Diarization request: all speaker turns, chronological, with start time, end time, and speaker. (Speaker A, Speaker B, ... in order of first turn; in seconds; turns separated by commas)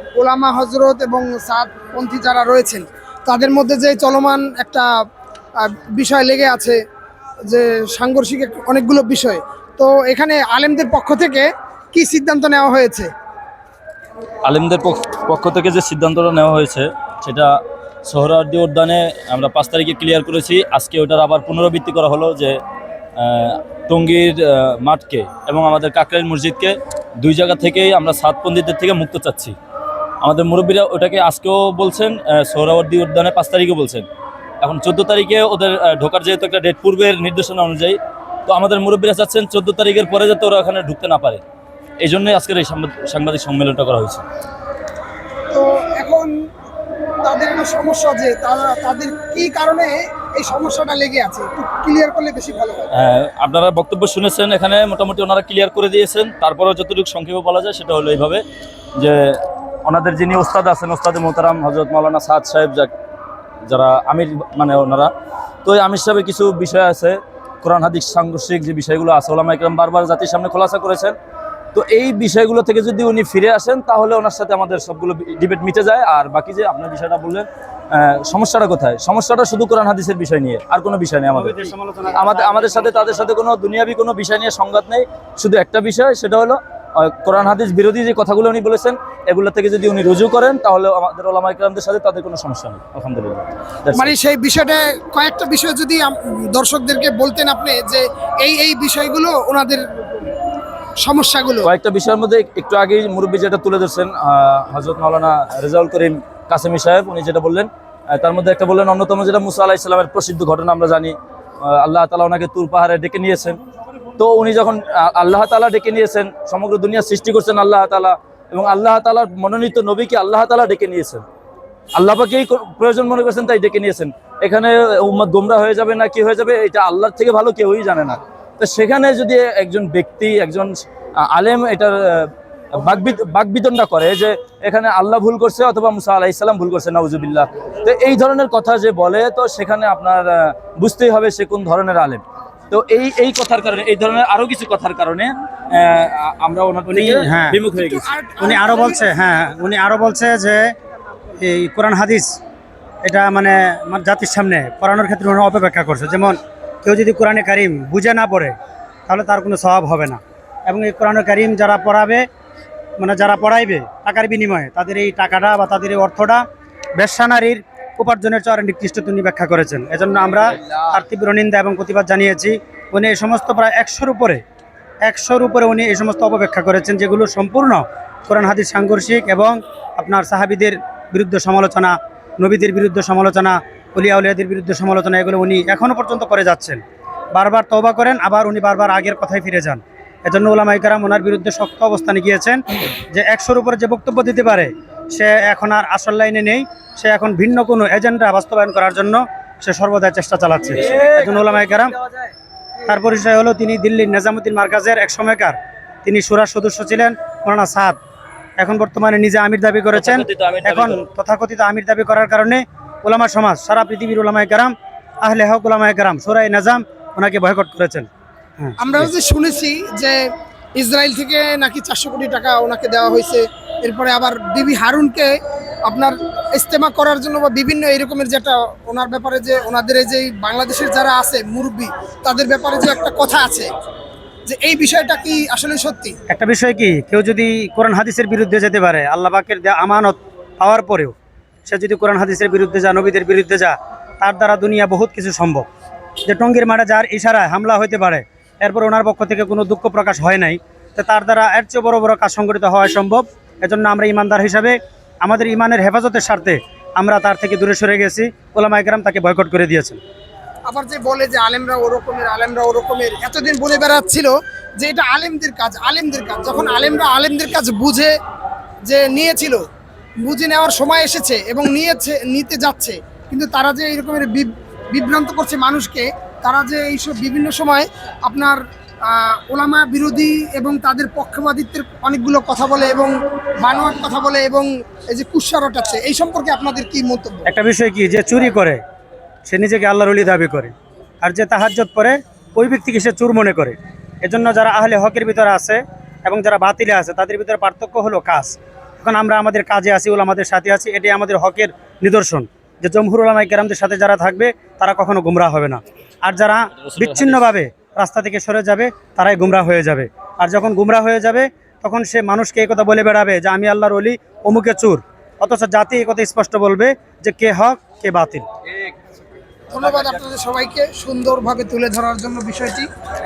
Speaker A: 0.1-4.8, Speaker A: 5.6-6.8, Speaker A: 7.5-13.1, Speaker B: 14.4-22.6, Speaker B: 23.2-29.6, Speaker B: 30.2-34.0, Speaker B: 34.6-41.4, Speaker B: 42.0-44.2, Speaker A: 45.5-46.3, Speaker A: 47.2-52.9, Speaker B: 52.9-58.4, Speaker B: 59.0-62.9, Speaker B: 63.7-65.1, Speaker B: 65.6-71.1, Speaker B: 71.7-94.1, Speaker C: 81.3-83.2, Speaker A: 93.9-100.2, Speaker A: 101.0-101.7, Speaker B: 101.6-113.6, Speaker B: 114.2-121.2, Speaker B: 122.0-148.1, Speaker C: 146.9-147.6, Speaker A: 147.8-149.2, Speaker C: 148.4-150.7, Speaker C: 151.4-152.3, Speaker C: 153.0-158.5, Speaker C: 159.1-162.2, Speaker C: 163.0-166.4, Speaker C: 167.0-174.4, Speaker B: 170.3-171.0, Speaker C: 175.0-186.8, Speaker C: 187.3-201.9, Speaker B: 200.9-201.4, Speaker C: 202.8-208.0, Speaker C: 208.6-218.1, Speaker B: 209.9-211.0, Speaker C: 218.6-219.1, Speaker A: 218.8-220.2, Speaker A: 220.8-225.3, Speaker A: 225.8-233.7, Speaker A: 234.5-236.2, Speaker C: 236.3-241.1, Speaker C: 241.7-245.7, Speaker C: 246.2-260.0, Speaker A: 260.7-268.1, Speaker A: 268.8-269.6, Speaker A: 270.2-287.5, Speaker C: 287.4-288.8, Speaker C: 289.4-318.4, Speaker B: 306.8-307.5, Speaker A: 319.7-322.9